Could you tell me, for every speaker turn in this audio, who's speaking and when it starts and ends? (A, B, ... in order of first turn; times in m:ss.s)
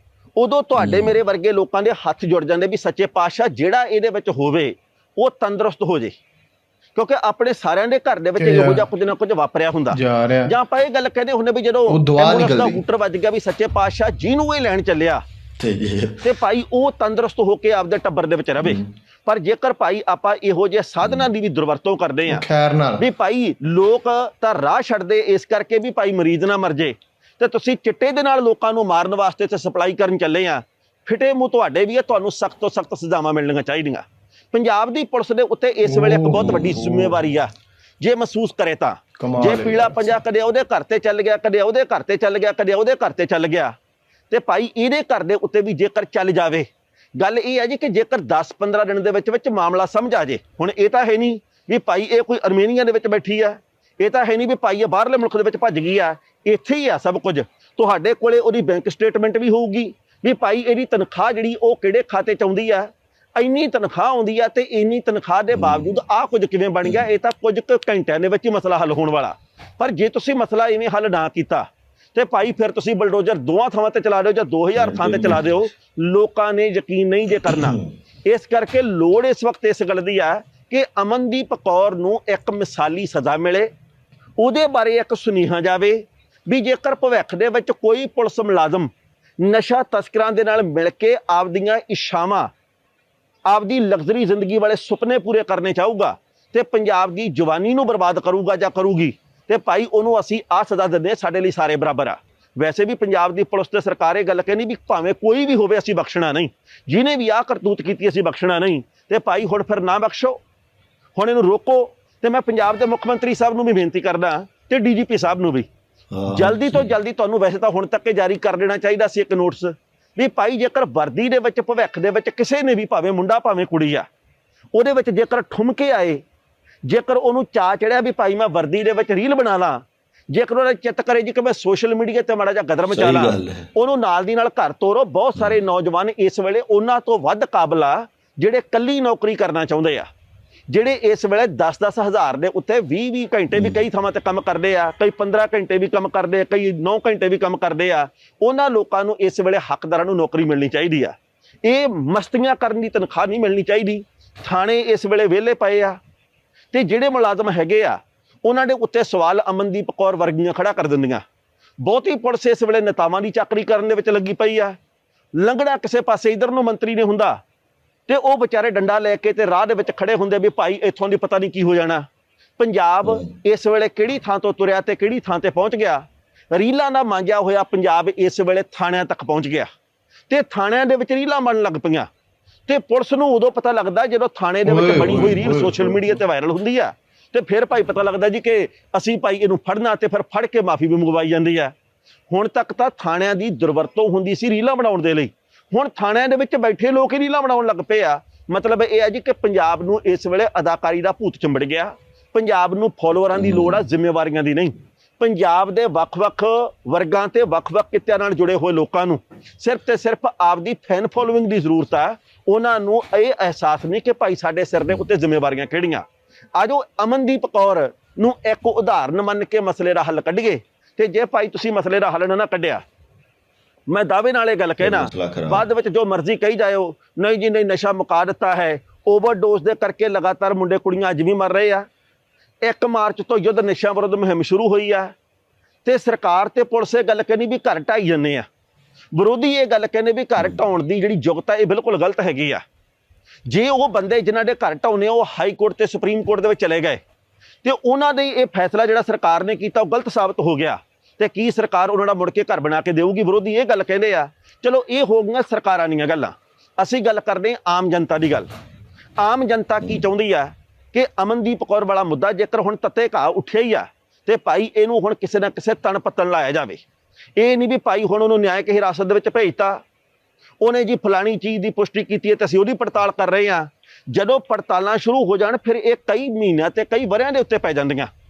0:00.4-0:06.2 A
0:00.8-0:01.2 B
0:07.0-0:15.2 A
0:08.4-0:08.9 C
0:09.9-0:10.6 C
0:11.9-0:12.8 C
0:15.6-0:16.2 B
0:16.2-0:22.5 A
0:22.3-0:23.1 C
0:23.0-0:43.8 A
0:35.8-0:37.2 C
0:36.3-0:36.8 B
0:39.2-0:40.2 C
0:44.3-1:23.7 A
1:05.5-1:06.0 B
1:14.8-1:15.7 B
1:17.4-1:17.8 B
1:24.4-1:28.9 A
1:29.4-1:32.5 A
1:33.5-1:50.4 A
1:51.2-1:55.7 A
1:56.1-1:56.9 B
1:56.3-2:04.1 A
2:04.7-2:06.2 A
2:06.8-2:20.1 A
2:12.9-2:13.7 B
2:20.7-2:36.0 A
2:23.5-2:23.8 B
2:36.7-2:41.2 A
2:41.8-2:44.8 A
2:45.4-2:47.4 A
2:48.1-2:52.0 A
2:52.6-2:59.7 A
3:00.3-3:02.1 A
3:02.7-3:11.7 A
3:04.6-3:06.2 C
3:12.3-3:36.0 A
3:23.3-3:23.8 B
3:36.6-3:42.8 A
3:43.9-3:51.9 A
3:44.8-3:45.6 B
3:52.6-3:55.1 A
3:55.8-3:58.4 A
3:59.1-4:02.6 A
4:03.5-4:07.0 A
4:07.6-4:18.5 A
4:19.2-4:26.8 A
4:27.4-4:29.8 A
4:30.6-4:38.1 A